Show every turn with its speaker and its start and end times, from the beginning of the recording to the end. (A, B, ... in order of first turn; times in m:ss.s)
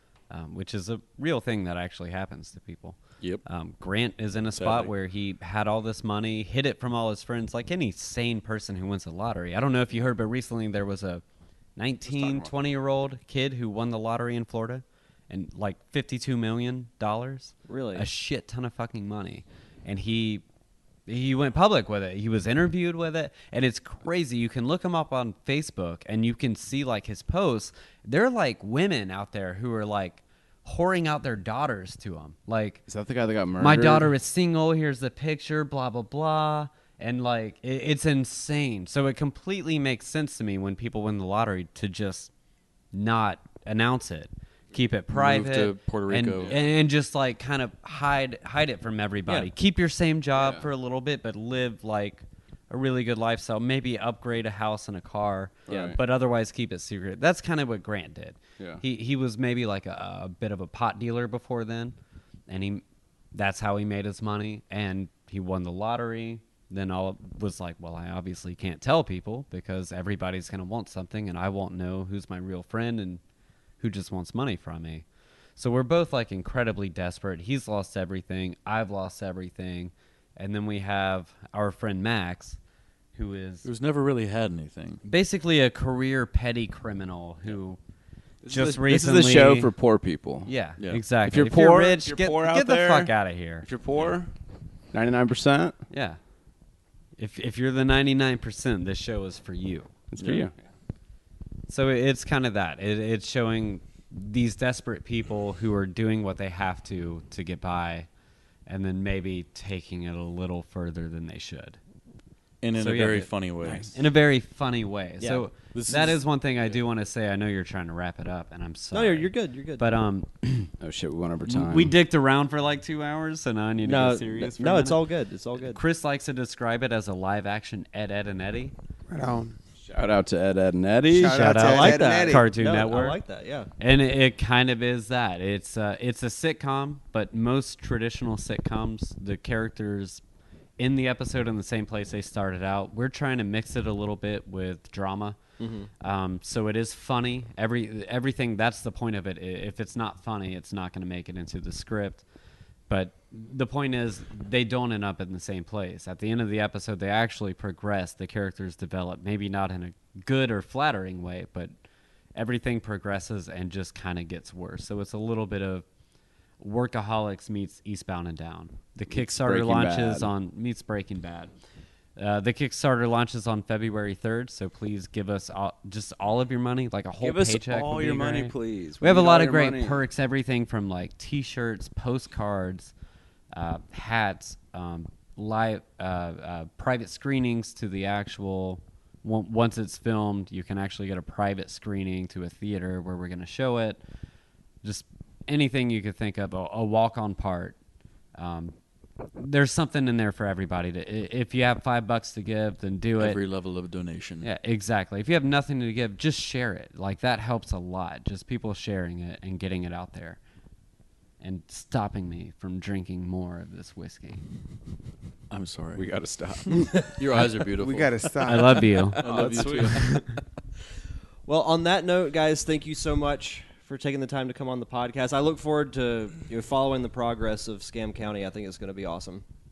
0:00.3-0:11.2 A
0:04.6-0:04.9 B
0:11.8-0:20.4 A
0:12.1-0:12.5 C
0:17.7-0:18.0 D
0:21.1-0:32.8 A
0:32.9-0:34.1 C
0:33.6-0:42.3 A
0:42.9-1:02.0 A
0:45.1-0:46.6 B
0:50.3-0:50.7 C
0:55.7-0:56.0 D
0:55.7-0:56.0 C
1:02.5-1:13.2 A
1:13.8-1:15.0 A
1:15.6-1:22.6 A
1:23.2-1:23.7 A
1:23.6-1:25.0 B
1:25.0-1:27.8 A
1:28.4-1:30.5 C
1:28.5-1:29.7 A
1:30.5-1:33.7 A
1:30.8-1:31.0 B
1:31.2-1:33.1 C
1:33.6-1:34.3 C
1:34.9-1:35.8 C
1:35.9-1:36.2 A
1:37.2-1:39.9 A
1:40.1-1:40.5 C
1:40.2-1:40.5 B
1:41.7-1:48.1 A
1:48.7-1:51.8 A
1:52.6-1:53.9 B
1:52.8-1:53.3 A
1:53.6-1:53.9 C
1:53.9-2:00.7 A
1:55.2-1:55.4 D
1:55.7-1:56.8 B
1:58.9-1:59.8 D
2:00.8-2:02.0 C
2:01.4-2:05.0 A
2:03.8-2:05.8 D
2:05.6-2:08.7 A
2:09.1-2:09.6 E
2:09.8-2:11.4 C
2:11.1-2:12.5 E
2:11.2-2:13.2 A
2:11.4-2:13.7 D
2:13.8-2:20.2 A
2:20.8-2:25.4 A
2:25.6-2:25.9 D
2:26.0-2:32.2 A
2:32.9-2:41.7 A
2:42.4-2:45.8 A
2:46.6-2:51.5 A
2:49.1-2:50.3 C
2:52.2-3:02.9 A
2:57.2-3:00.0 C
3:03.5-3:14.0 A
3:14.8-3:17.8 A
3:18.4-3:18.8 A
3:19.4-3:23.4 A
3:23.2-3:24.5 B
3:24.4-3:30.4 A
3:31.4-3:34.4 A
3:35.5-3:36.1 B
3:36.0-3:37.2 C
3:36.7-3:38.2 B
3:37.8-3:39.1 E
3:38.4-3:39.2 A
3:39.2-3:40.2 B
3:39.2-3:40.2 C
3:41.5-3:49.4 D